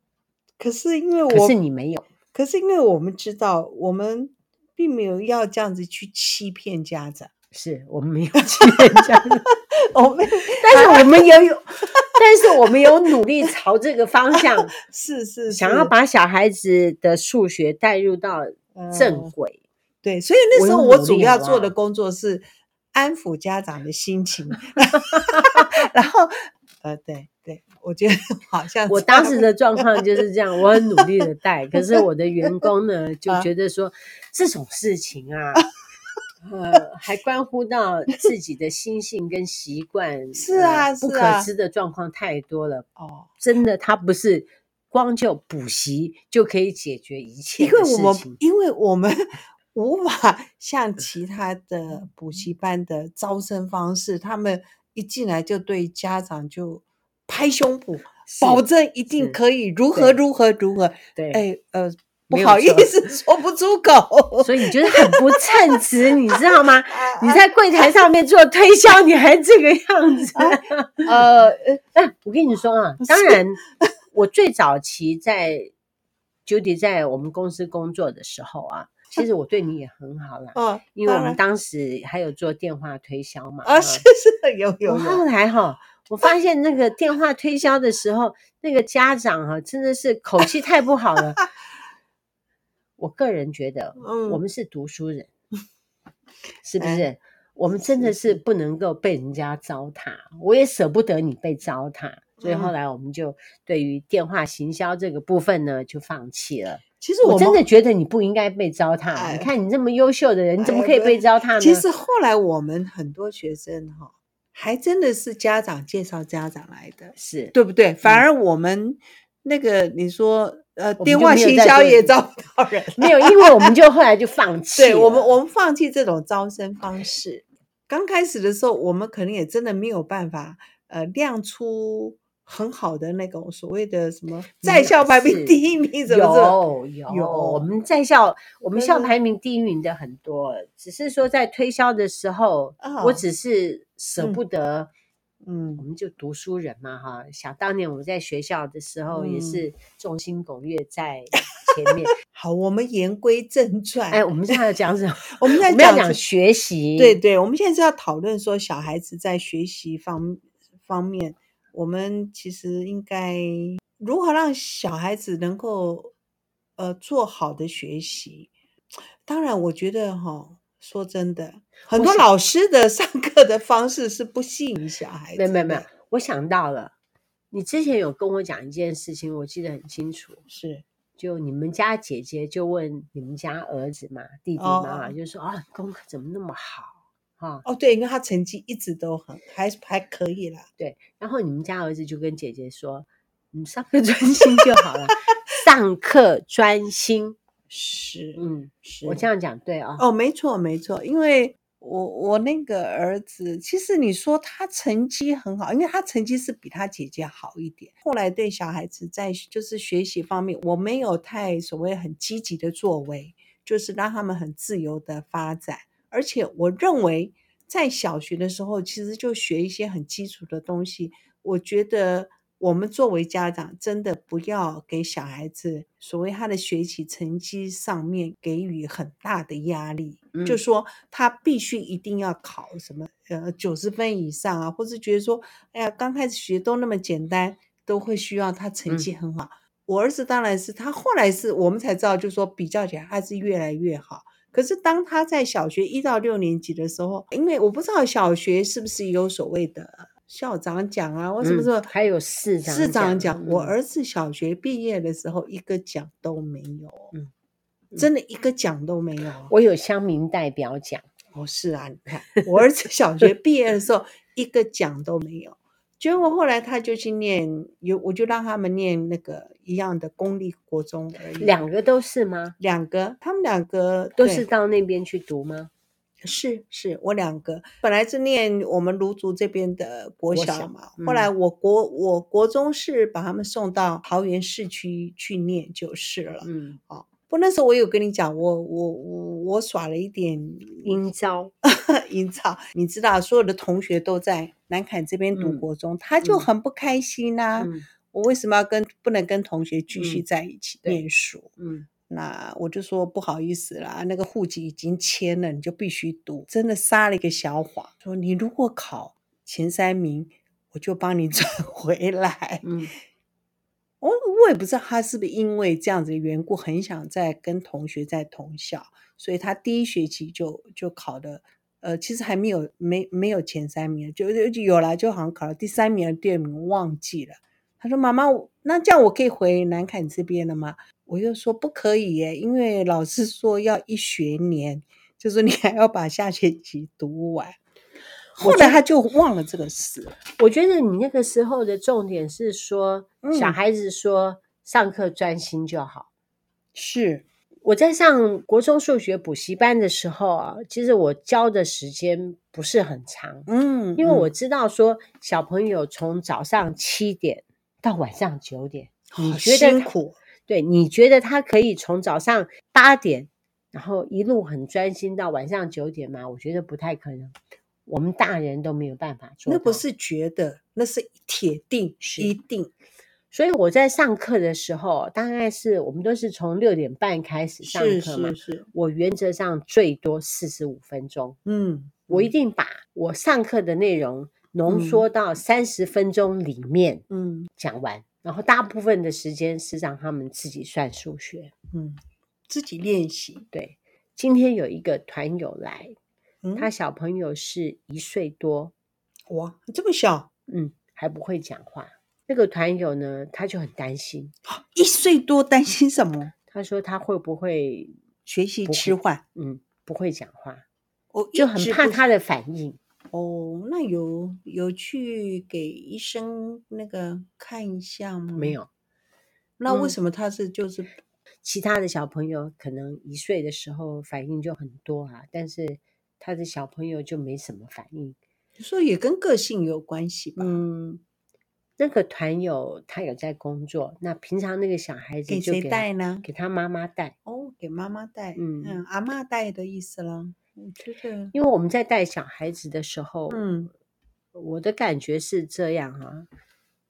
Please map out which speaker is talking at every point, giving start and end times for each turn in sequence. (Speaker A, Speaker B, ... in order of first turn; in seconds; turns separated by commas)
Speaker A: 0.6-1.6, Speaker B: 1.3-2.1, Speaker A: 2.3-7.3, Speaker B: 7.5-9.5, Speaker A: 8.5-11.2, Speaker B: 10.5-14.7, Speaker A: 12.7-13.5, Speaker A: 14.3-15.9, Speaker B: 15.5-19.6, Speaker A: 18.7-19.3, Speaker A: 20.0-30.2, Speaker B: 20.5-21.7, Speaker B: 24.8-25.8, Speaker B: 28.9-35.7, Speaker A: 30.7-31.1, Speaker A: 31.8-32.7, Speaker B: 36.4-42.9, Speaker A: 40.3-41.5, Speaker A: 43.0-43.3, Speaker B: 43.4-48.4, Speaker A: 47.6-67.9, Speaker B: 58.2-59.4, Speaker B: 59.9-60.2, Speaker B: 61.1-61.4, Speaker B: 62.3-63.0, Speaker B: 64.4-71.2, Speaker A: 70.3-71.8, Speaker B: 72.0-73.6, Speaker A: 73.0-73.8, Speaker B: 74.1-75.7, Speaker B: 76.5-84.0, Speaker A: 80.5-81.4, Speaker A: 83.6-85.2, Speaker B: 84.8-91.4, Speaker B: 93.0-95.3, Speaker A: 94.0-94.4, Speaker B: 96.6-111.8, Speaker A: 96.8-97.1, Speaker A: 97.7-98.4, Speaker A: 102.4-102.7, Speaker A: 107.0-107.6, Speaker A: 109.1-109.5, Speaker A: 110.6-123.7, Speaker B: 117.2-118.2, Speaker B: 121.0-122.1, Speaker B: 123.0-125.3, Speaker A: 124.8-137.7, Speaker B: 134.6-144.9, Speaker A: 138.7-139.1, Speaker A: 142.8-143.2, Speaker A: 145.4-145.8, Speaker B: 145.8-152.1, Speaker A: 149.1-149.7, Speaker A: 152.2-154.6, Speaker B: 154.1-157.2, Speaker A: 155.3-156.2, Speaker A: 157.0-166.1, Speaker A: 166.8-168.5, Speaker A: 169.2-175.9, Speaker B: 171.9-172.3, Speaker B: 175.3-176.9, Speaker B: 177.5-180.4, Speaker A: 180.5-180.8, Speaker B: 181.2-187.6, Speaker A: 184.6-185.1, Speaker A: 187.6-190.7, Speaker B: 190.8-197.4, Speaker A: 194.4-195.1, Speaker A: 197.7-199.2, Speaker B: 198.3-200.0, Speaker A: 200.0-251.9, Speaker B: 230.3-230.6, Speaker B: 251.4-253.7, Speaker A: 252.6-257.1, Speaker A: 258.0-259.5, Speaker B: 259.5-261.1, Speaker A: 261.3-271.5, Speaker B: 271.4-272.6, Speaker A: 272.6-274.4, Speaker B: 274.2-275.7, Speaker A: 276.2-291.0, Speaker B: 280.3-281.3, Speaker B: 286.4-286.8, Speaker B: 290.8-291.5, Speaker A: 291.6-301.5, Speaker B: 295.4-295.6, Speaker B: 296.2-296.5, Speaker B: 297.6-297.9, Speaker B: 299.9-300.2, Speaker B: 301.6-301.9, Speaker A: 302.1-312.6, Speaker B: 312.6-312.9, Speaker A: 314.0-337.6, Speaker B: 338.4-338.8, Speaker A: 338.4-340.2, Speaker B: 340.4-346.1, Speaker A: 343.2-343.6, Speaker A: 346.7-347.2, Speaker B: 347.6-359.9, Speaker A: 353.5-354.3, Speaker A: 359.1-360.2, Speaker B: 360.5-367.3, Speaker B: 367.9-369.8, Speaker A: 369.5-372.7, Speaker B: 372.0-372.3, Speaker B: 373.3-381.4, Speaker A: 377.6-378.7, Speaker A: 381.4-382.3, Speaker B: 382.1-387.0, Speaker A: 384.7-385.0, Speaker A: 387.1-387.5, Speaker B: 387.6-391.5, Speaker A: 391.7-393.5, Speaker B: 393.5-395.9, Speaker A: 396.4-396.7, Speaker B: 396.6-398.7, Speaker A: 399.3-400.3, Speaker B: 400.5-404.3, Speaker A: 404.4-406.3, Speaker B: 406.5-407.9, Speaker A: 408.2-409.2, Speaker B: 408.6-410.6, Speaker A: 411.1-412.0, Speaker B: 411.4-412.8, Speaker A: 413.1-418.6, Speaker B: 418.3-418.7, Speaker A: 419.6-420.9, Speaker B: 419.7-419.9, Speaker B: 421.4-428.2, Speaker A: 428.6-430.6, Speaker B: 430.4-431.0, Speaker B: 431.8-437.1, Speaker A: 435.3-436.2, Speaker A: 437.2-441.3, Speaker B: 438.3-438.8, Speaker B: 441.3-443.5, Speaker A: 443.3-443.7, Speaker B: 444.3-446.3